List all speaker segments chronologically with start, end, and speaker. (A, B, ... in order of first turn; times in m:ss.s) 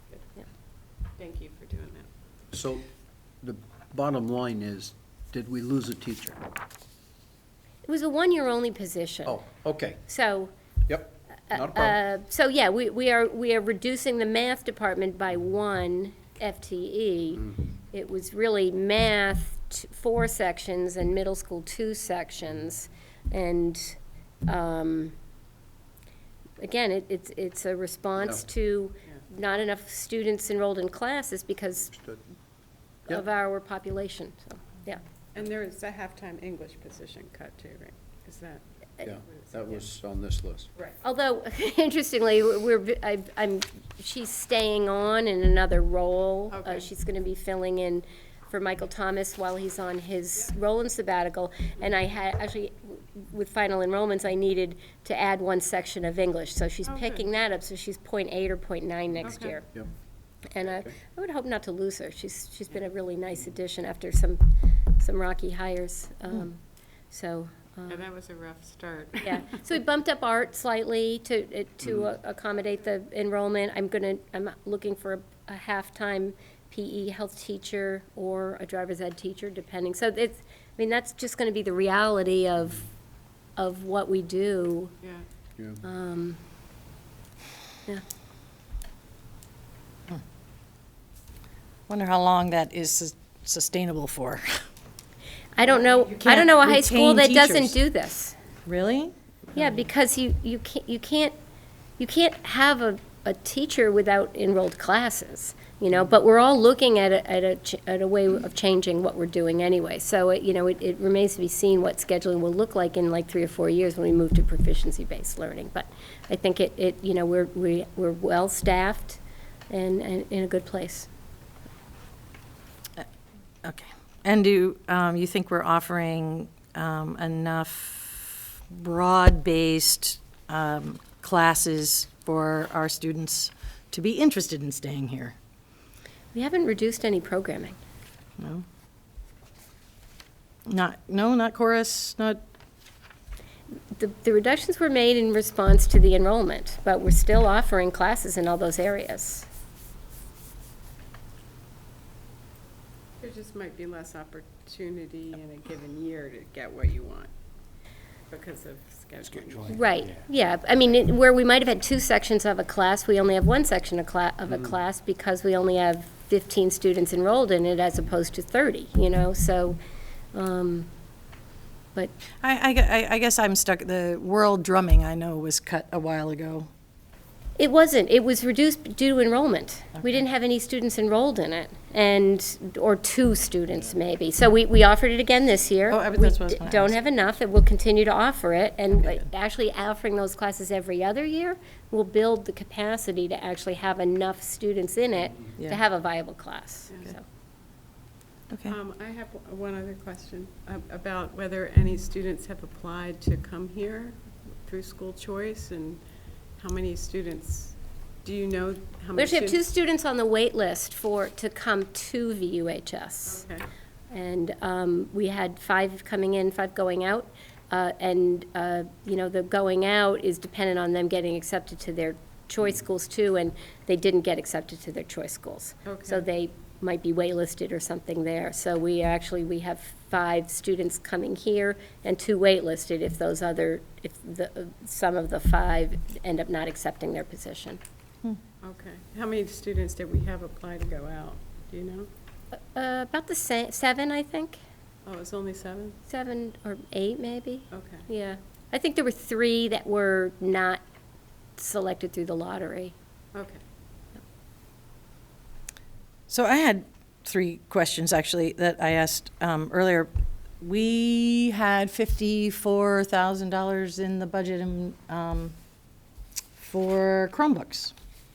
0:01.2-0:02.1 A
0:02.5-0:02.9 B
0:03.4-0:06.4 B
0:07.9-0:09.4 C
0:09.3-0:10.0 B
0:10.1-0:10.5 C
0:10.9-0:12.0 B
0:11.5-0:25.2 C
0:26.6-0:31.9 C
0:31.9-0:32.2 B
0:33.1-0:35.0 C
0:35.3-0:39.9 A
0:39.0-0:40.7 B
0:41.0-0:59.7 C
0:46.6-0:46.8 A
0:56.9-0:57.2 A
0:59.2-0:59.6 A
1:00.5-1:04.4 C
1:05.0-1:08.0 C
1:07.9-1:09.6 A
1:09.2-1:22.9 C
1:23.6-1:24.9 C
1:25.8-1:26.4 C
1:31.9-1:34.6 D
1:35.6-1:38.4 C
1:36.1-1:37.8 D
1:38.6-1:39.8 D
1:39.6-1:41.3 C
1:42.0-2:01.1 C
2:03.6-2:15.4 D
2:16.3-2:17.8 C
2:18.4-2:18.6 D
2:20.7-2:22.4 D
2:23.9-2:29.5 C
2:33.2-2:37.3 A
2:38.3-2:39.8 A
2:39.5-2:39.8 B
2:39.7-2:49.8 C
2:50.3-2:50.9 C
2:52.4-2:56.7 D
2:57.6-3:17.2 C
3:05.9-3:07.0 D
3:18.5-3:18.8 D
3:18.7-3:26.0 A
3:26.6-3:29.6 A
3:29.2-3:33.4 C
3:33.3-3:33.6 A
3:34.1-3:57.8 C
3:45.9-3:46.3 A
3:58.6-4:02.1 A
4:02.5-4:04.6 C
4:05.0-4:06.0 A
4:06.1-4:10.8 C
4:07.7-4:08.1 A
4:11.6-4:13.0 C
4:13.3-4:13.6 A
4:16.3-4:25.5 D
4:26.6-4:27.9 D